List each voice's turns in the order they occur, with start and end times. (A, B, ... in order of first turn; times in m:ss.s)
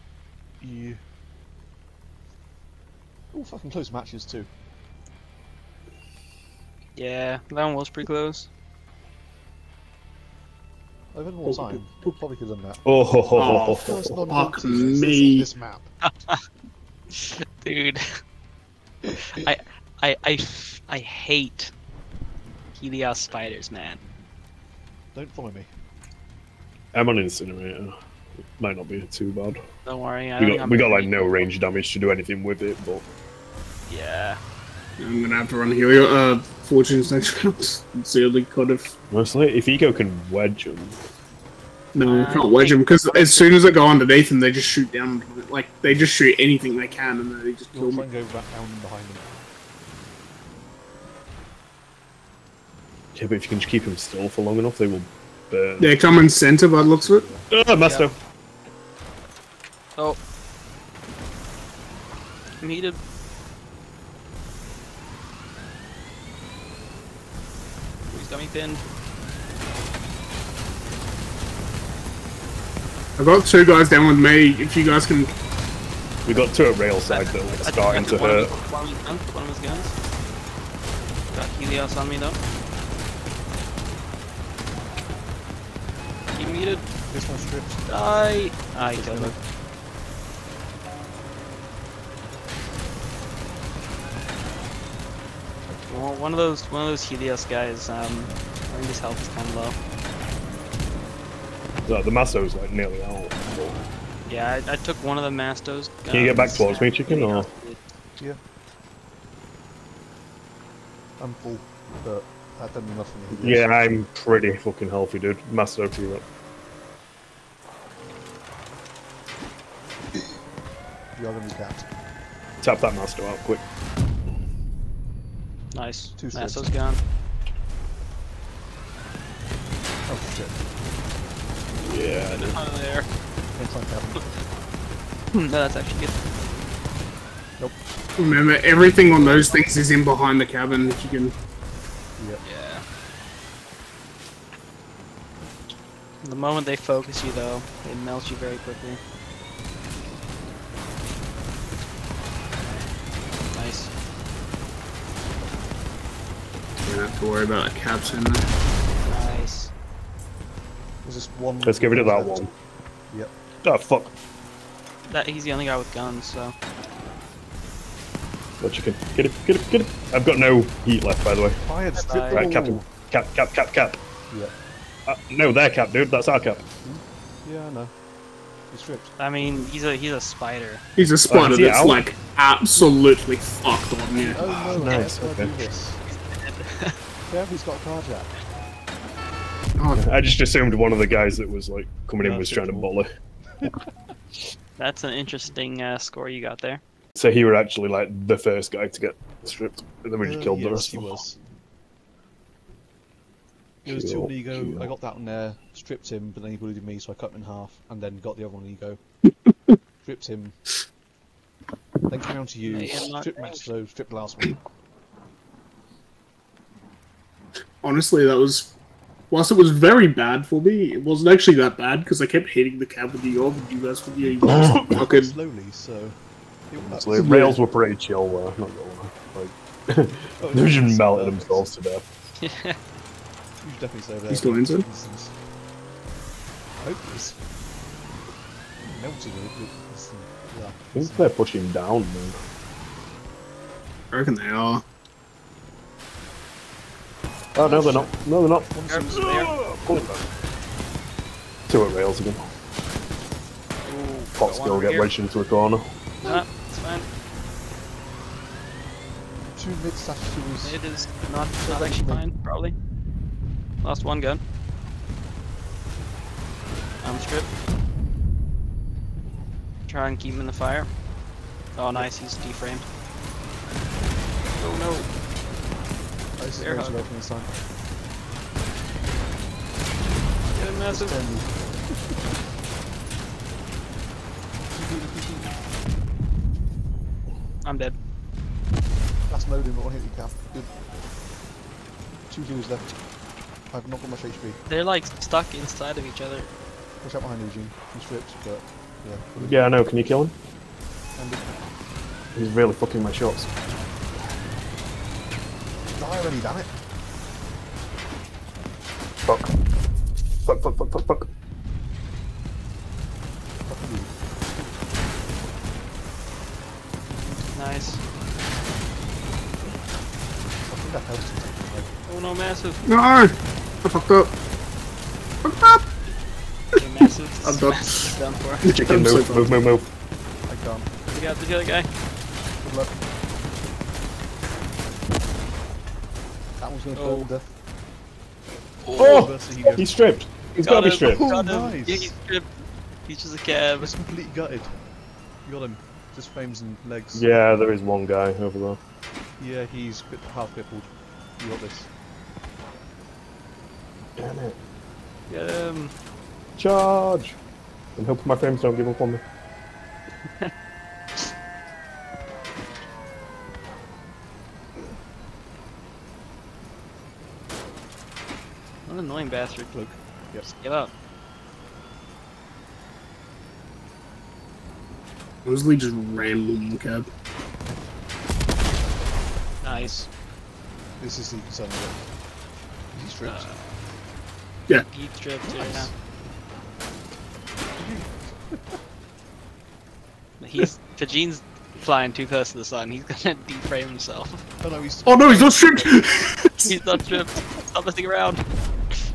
0:00.6-0:01.0 A
0:03.3-0:04.5 A
0:07.0-0:08.5 B
0:11.1-0:12.8 A
0:11.4-0:12.1 C
0:12.8-0:13.9 D
0:13.3-0:15.5 C
0:13.4-0:15.9 A
0:16.0-0:16.4 B
0:17.1-0:18.0 B
0:19.3-0:21.7 B
0:22.8-0:24.0 B
0:25.1-0:25.7 A
0:26.9-0:27.9 D
0:28.6-0:29.6 D
0:29.8-0:31.5 B
0:30.4-0:33.0 D
0:33.9-0:34.4 B
0:35.0-0:38.9 C
0:39.1-0:41.0 D
0:42.0-0:48.0 C
0:42.0-0:43.4 B
0:47.7-0:49.3 A
0:53.1-0:56.0 D
0:55.8-0:57.3 C
0:56.6-0:57.5 A
0:57.5-0:58.1 D
0:57.8-0:58.1 B
1:02.6-1:03.0 B
1:08.1-1:08.8 B
1:13.2-1:15.3 C
1:16.2-1:18.6 D
1:17.1-1:20.0 B
1:21.3-1:22.4 B
1:26.4-1:26.9 B
1:27.1-1:28.2 A
1:27.9-1:29.4 B
1:28.8-1:29.4 A
1:35.9-1:39.8 B
1:41.9-1:43.8 D
1:44.3-1:47.8 B
1:46.1-1:47.5 D
1:51.2-1:53.7 A
1:53.3-1:56.2 D
2:01.2-2:01.9 A
2:02.6-2:03.6 D
2:05.7-2:07.0 B
2:06.2-2:06.7 A
2:10.1-2:10.6 A
2:11.8-2:12.6 D
2:12.1-2:13.1 B
2:13.5-2:14.2 A
2:15.3-2:16.2 B
2:18.2-2:21.3 C
2:19.1-2:19.6 A
2:22.2-2:22.4 A
2:22.4-2:22.8 B
2:26.2-2:29.0 B
2:33.5-2:33.9 B
2:36.8-2:38.4 C
2:39.0-2:39.7 B
2:41.0-2:42.4 A
2:41.6-2:42.5 D
2:43.6-2:44.1 D
2:45.1-2:46.5 B
2:48.6-2:51.6 D
2:51.6-2:52.8 A
2:51.9-2:52.4 B
2:52.3-2:54.0 D
2:55.1-2:56.6 D
2:56.8-2:57.9 A
2:58.7-2:59.2 A
2:59.2-3:00.8 B
3:01.0-3:04.9 C
3:01.3-3:02.0 D
3:04.1-3:06.0 A
3:04.8-3:05.6 D
3:06.1-3:07.0 B
3:07.3-3:08.3 A
3:09.9-3:13.1 D
3:12.2-3:12.9 A
3:13.6-3:13.9 A
3:14.8-3:16.8 B
3:17.2-3:21.2 D
3:20.2-3:21.4 A
3:23.8-3:29.0 A
3:23.8-3:24.9 D
3:29.5-3:29.8 C
3:30.0-3:30.6 A
3:32.1-3:34.6 A
3:32.7-3:33.6 B
3:37.8-3:38.7 C
3:39.3-3:45.3 C
3:44.4-3:46.2 A
3:44.4-3:45.0 D
3:46.7-3:47.1 A
3:46.8-3:52.0 D
3:47.2-3:47.6 C
3:50.4-3:51.7 A
3:52.4-3:52.8 B
3:53.6-3:55.4 A
3:54.3-3:54.8 C
3:56.8-3:57.4 A
3:58.8-4:01.3 A
4:00.9-4:02.4 D
4:04.1-4:04.8 C
4:07.5-4:10.2 D
4:07.6-4:09.2 A
4:08.8-4:09.5 B
4:11.7-4:12.5 D
4:13.8-4:15.1 B
4:14.4-4:15.9 D
4:16.2-4:17.1 B
4:19.5-4:20.8 A
4:20.6-4:22.8 B
4:21.6-4:22.2 A
4:23.8-4:24.4 B
4:27.0-4:27.5 B
4:29.9-4:30.9 B
4:31.8-4:32.9 B
4:34.5-4:35.1 B
4:36.4-4:37.5 A
4:36.6-4:37.0 B
4:40.5-4:41.2 B
4:40.9-4:41.6 A
4:47.6-4:48.0 B
4:49.3-4:50.7 A
4:52.3-4:52.9 A
4:53.7-4:54.6 A
4:54.7-4:56.5 B
4:57.0-4:59.7 A
4:59.4-5:00.3 D
5:01.2-5:01.6 A
5:02.4-5:03.5 D
5:05.9-5:06.7 A
5:10.4-5:11.3 D
5:13.7-5:14.1 A
5:17.5-5:18.0 B
5:20.6-5:21.9 A
5:22.1-5:22.9 B
5:22.9-5:24.3 C
5:25.4-5:25.8 C
5:26.8-5:28.6 B
5:27.4-5:29.6 C
5:28.8-5:29.9 D
5:30.5-5:30.9 A
5:31.1-5:31.9 B
5:32.6-5:33.0 A
5:36.6-5:37.5 A
5:36.9-5:37.3 B
5:38.8-5:39.3 B
5:38.9-5:39.9 A
5:39.0-5:41.2 D
5:40.6-5:42.5 B
5:41.0-5:42.2 A
5:43.1-5:43.9 B
5:43.8-5:44.8 A
5:45.4-5:47.5 A
5:47.2-5:48.8 D
5:49.4-5:51.9 A
5:54.2-5:54.6 D
5:55.3-5:55.9 B
5:56.6-5:57.4 D
5:58.0-5:59.2 D
6:08.9-6:09.7 B
6:09.7-6:10.5 A
6:10.5-6:10.9 B
6:15.4-6:17.1 C
6:19.6-6:20.1 B
6:21.0-6:22.0 A
6:22.9-6:23.5 A
6:23.2-6:23.7 B
6:24.7-6:25.9 B
6:25.5-6:25.9 A
6:27.8-6:28.8 A
6:30.4-6:34.4 B
6:34.6-6:36.0 A
6:35.0-6:36.7 C
6:36.6-6:38.4 B